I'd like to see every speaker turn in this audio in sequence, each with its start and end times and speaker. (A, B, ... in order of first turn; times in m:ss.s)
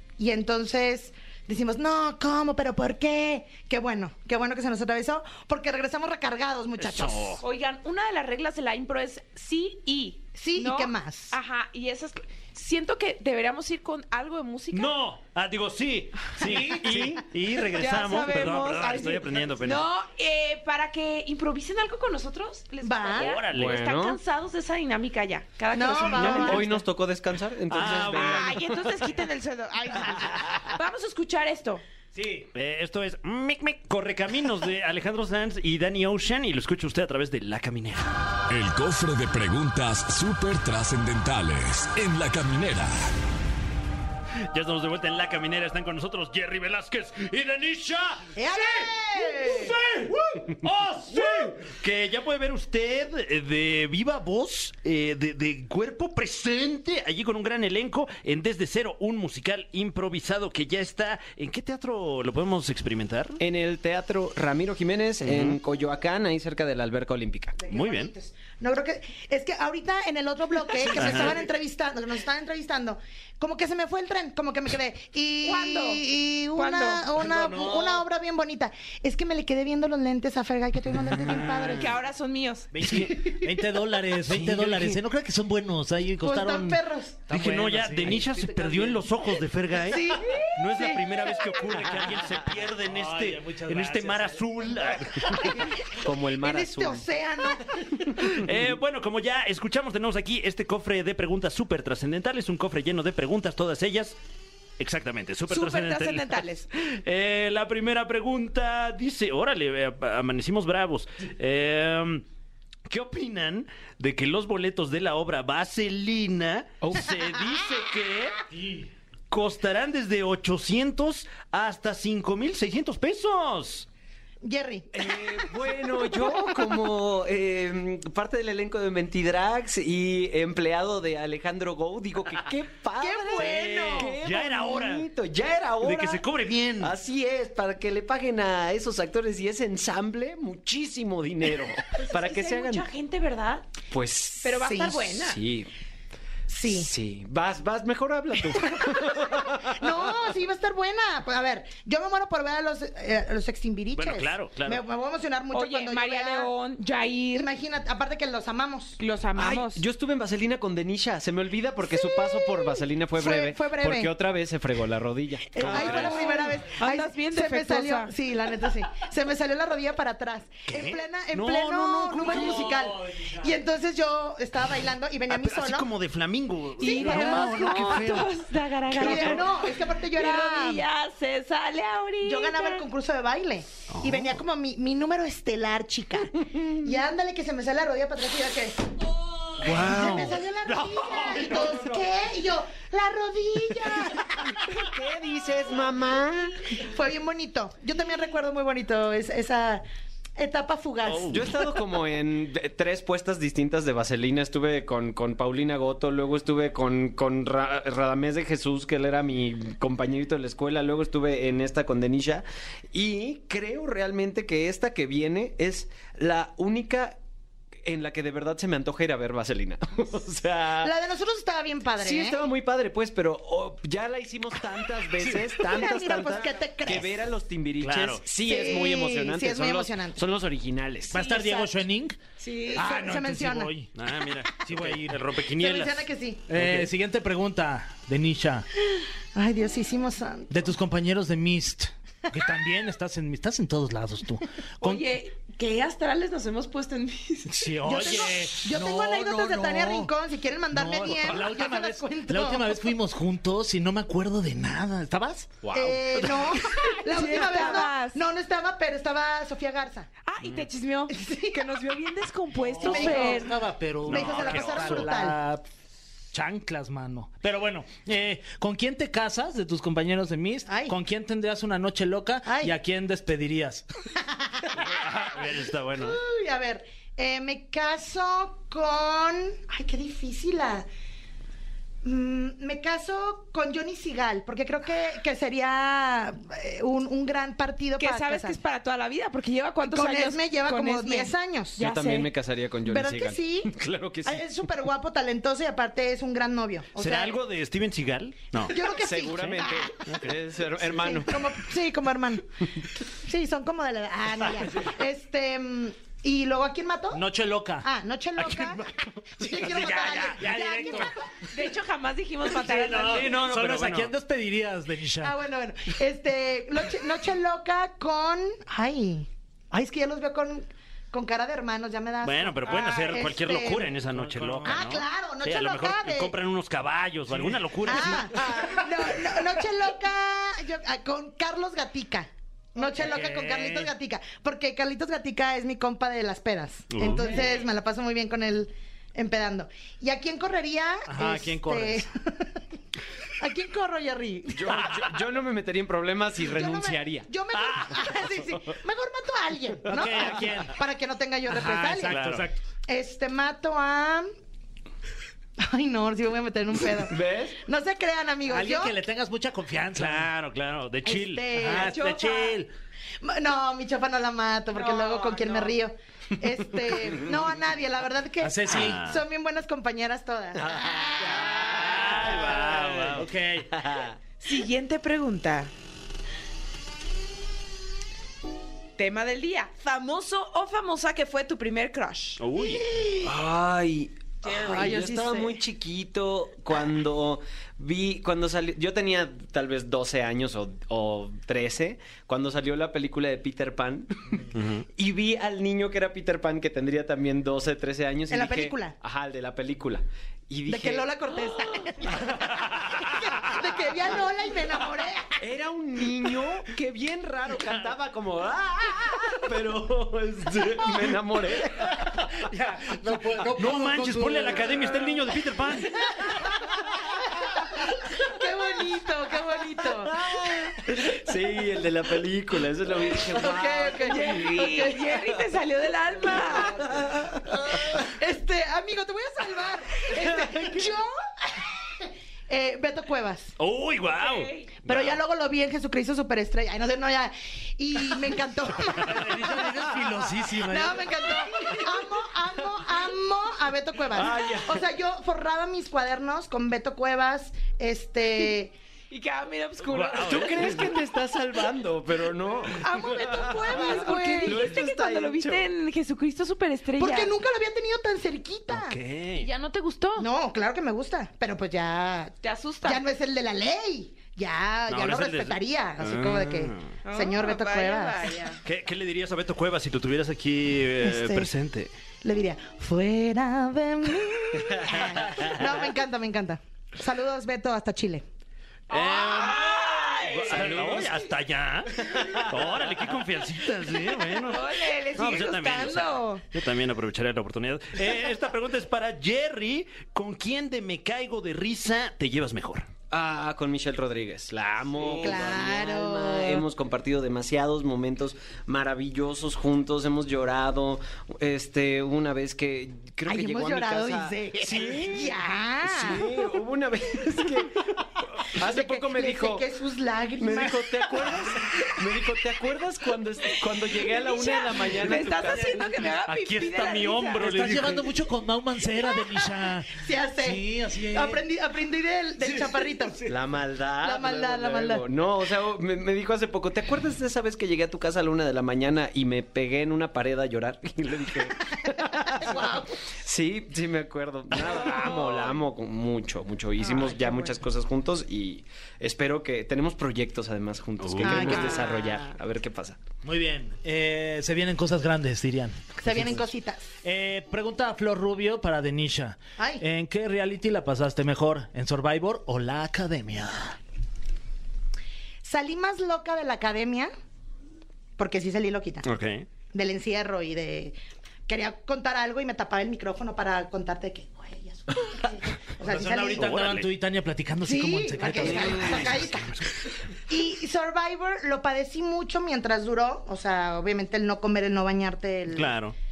0:00.2-0:07.4 A
0:06.8-0:07.4 B
0:07.4-0:15.0 C
0:10.4-0:11.4 A
0:14.7-0:19.8 B
0:16.4-0:16.8 D
0:16.8-0:17.2 E
0:17.8-0:26.8 C
0:22.8-0:23.4 A
0:23.2-0:23.8 B
0:23.5-0:24.2 E
0:25.7-0:26.8 A
0:26.1-0:29.1 E
0:27.7-0:28.6 B
0:28.1-0:31.8 C
0:32.1-0:32.5 D
0:32.5-0:38.1 B
0:38.5-0:43.1 F
0:44.5-1:03.4 B
0:48.4-0:49.8 A
1:03.4-1:07.6 E
1:05.2-1:05.6 B
1:07.6-1:22.0 A
1:07.7-1:08.1 B
1:10.9-1:11.4 B
1:15.4-1:16.0 C
1:16.5-1:17.1 C
1:17.1-1:18.0 D
1:21.3-1:21.7 B
1:21.6-1:22.7 C
1:22.7-1:29.0 D
1:22.8-1:23.2 B
1:23.0-1:23.5 A
1:24.3-1:25.0 B
1:26.2-1:27.2 A
1:27.3-1:35.5 B
1:29.7-1:31.6 A
1:32.8-1:34.4 D
1:35.2-1:38.2 A
1:36.0-1:37.1 E
1:38.3-1:44.2 B
1:44.8-1:52.2 B
1:45.5-1:46.7 C
1:52.9-1:58.5 B
1:56.8-1:57.1 E
1:58.6-1:58.8 D
1:59.3-2:03.9 B
2:04.4-2:05.5 A
2:05.0-2:16.2 E
2:06.1-2:06.4 A
2:13.0-2:14.2 A
2:13.4-2:15.1 B
2:15.8-2:16.9 B
2:16.8-2:22.9 E
2:22.0-2:23.7 C
2:23.9-2:24.5 E
2:24.4-2:25.4 C
2:24.5-2:25.1 A
2:25.1-2:25.7 E
2:26.5-2:26.9 A
2:26.7-2:30.2 E
2:28.6-2:36.5 A
2:34.0-2:34.8 B
2:35.5-2:37.5 C
2:37.3-2:39.0 A
2:39.0-2:39.8 C
2:39.4-2:46.3 E
2:41.9-2:44.1 A
2:45.5-2:55.9 A
2:45.6-2:46.3 B
2:45.6-2:48.1 C
2:50.7-2:52.8 B
2:52.2-2:53.6 D
2:55.3-2:58.4 B
2:56.8-2:58.2 A
2:56.8-2:59.5 C
2:58.9-3:00.8 A
2:58.9-2:59.3 B
3:00.1-3:02.9 C
3:02.2-3:08.9 A
3:03.9-3:04.4 B
3:09.6-3:14.6 A
3:09.6-3:11.9 B
3:14.6-3:16.6 E
3:16.7-3:19.8 A
3:20.4-3:21.6 A
3:21.1-3:21.3 B
3:21.2-3:37.2 E
3:37.8-3:40.9 E
3:40.8-3:42.5 A
3:42.0-3:51.2 E
3:45.6-3:47.3 A
3:47.8-3:48.2 B
3:48.4-3:50.2 A
3:51.1-3:52.2 D
3:51.2-3:51.7 A
3:52.4-3:52.8 C
3:52.7-3:53.7 A
3:52.7-3:53.9 D
3:54.0-3:56.9 B
3:54.6-3:55.2 D
3:55.5-3:56.4 A
3:56.5-3:58.7 D
3:58.9-4:00.7 A
4:00.5-4:05.1 D
4:04.8-4:08.2 C
4:07.5-4:10.1 D
4:07.8-4:12.9 A
4:10.7-4:15.6 D
4:15.6-4:16.0 E
4:15.7-4:20.1 A
4:17.0-4:18.2 C
4:20.3-4:23.5 C
4:21.1-4:21.6 A
4:22.6-4:25.6 D
4:22.8-4:23.5 A
4:24.1-4:25.1 B
4:24.1-4:25.4 A
4:26.3-4:33.8 D
4:30.7-4:31.0 A
4:32.4-4:32.7 A
4:34.3-4:35.0 A
4:34.8-4:36.2 B
4:35.9-4:40.8 A
4:42.0-4:48.6 A
4:48.0-4:52.3 C
4:49.9-4:51.8 A
4:51.8-4:54.5 E
4:52.8-4:53.7 A
4:54.2-4:57.4 A
4:57.0-4:58.8 B
4:58.6-5:00.0 A
4:58.9-5:01.5 E
5:00.1-5:00.3 B
5:00.9-5:02.5 A
5:03.1-5:07.2 A
5:07.1-5:07.9 D
5:07.8-5:11.3 A
5:08.4-5:10.4 B
5:09.7-5:11.2 D
5:11.5-5:13.4 C
5:12.5-5:15.4 D
5:13.0-5:14.1 B
5:15.2-5:23.9 A
5:22.2-5:28.8 B
5:24.2-5:24.9 D
5:24.6-5:26.3 A
5:27.3-5:28.6 D
5:27.8-5:42.6 A
5:33.0-5:33.9 D
5:36.9-5:37.5 B
5:41.1-5:42.1 D
5:43.4-5:45.1 A
5:44.5-5:47.3 E
5:46.4-5:52.2 A
5:49.9-5:50.8 D
5:51.5-5:52.6 D
5:52.1-5:52.5 B
5:52.9-5:54.3 A
5:55.6-5:59.0 A
5:57.0-5:57.6 E
5:58.4-6:00.3 D
6:00.0-6:01.6 B
6:01.0-6:02.5 A
6:01.5-6:02.7 D
6:01.7-6:02.3 C
6:03.2-6:12.6 A
6:04.7-6:05.8 C
6:08.4-6:09.0 D
6:08.7-6:09.2 B
6:10.5-6:13.2 E
6:11.6-6:13.3 B
6:13.1-6:13.7 D
6:13.7-6:14.2 E
6:14.4-6:15.7 C
6:19.0-6:22.4 C
6:22.4-6:22.8 B
6:22.6-6:23.3 A
6:23.2-6:41.2 E
6:24.4-6:25.0 C
6:24.5-6:25.6 A
6:34.5-6:34.8 B
6:38.3-6:39.0 A
6:40.7-6:45.4 A
6:45.4-6:52.2 E
6:52.4-6:54.9 D
6:53.6-6:56.1 B
6:58.1-7:00.3 A
7:00.0-7:05.0 E
7:03.3-7:05.1 A
7:04.0-7:06.9 C
7:06.4-7:13.5 A
7:06.6-7:07.3 E
7:10.2-7:10.9 E
7:13.6-7:15.2 B
7:14.1-7:14.7 C
7:14.8-7:19.7 A
7:19.0-7:21.2 D
7:20.5-7:28.7 A
7:24.1-7:24.9 E
7:29.1-7:31.0 C
7:29.9-7:30.9 B
7:30.2-7:35.7 E
7:32.8-7:34.7 A
7:32.8-7:37.3 C
7:37.0-7:39.0 A
7:38.7-7:39.5 B
7:39.4-7:40.3 C
7:40.2-7:48.3 A
7:42.4-7:43.0 C
7:44.9-7:46.9 B
7:47.0-7:48.6 C
7:48.6-7:51.9 B
7:51.0-7:51.5 A
7:52.2-7:58.2 A
7:58.9-8:12.9 B
7:58.9-8:00.7 C
8:00.4-8:01.2 E
8:02.0-8:02.5 E
8:04.4-8:06.4 C
8:13.1-8:27.8 E
8:15.0-8:16.6 A
8:23.3-8:26.3 A
8:28.4-8:29.7 E
8:28.6-8:31.8 A
8:30.4-8:36.0 E
8:34.2-8:37.4 C
8:36.2-8:38.1 B
8:37.4-8:41.4 D
8:39.9-8:43.3 A
8:42.4-8:43.3 D
8:43.3-8:52.7 E
8:44.0-8:45.1 A
8:52.3-8:53.0 A
8:53.2-9:03.0 E
9:01.0-9:01.5 B
9:01.2-9:02.2 A
9:01.6-9:01.8 C
9:03.2-9:06.5 D
9:06.0-9:06.9 A
9:07.0-9:13.8 D
9:09.6-9:09.8 A
9:15.4-9:17.1 A
9:18.2-9:19.1 A
9:19.0-9:19.5 B
9:19.7-9:20.9 A
9:21.5-9:26.7 A
9:25.8-9:29.1 D
9:26.4-9:26.9 B
9:27.6-9:29.6 A
9:28.5-9:29.6 B
9:30.3-9:35.8 A
9:35.5-9:35.9 B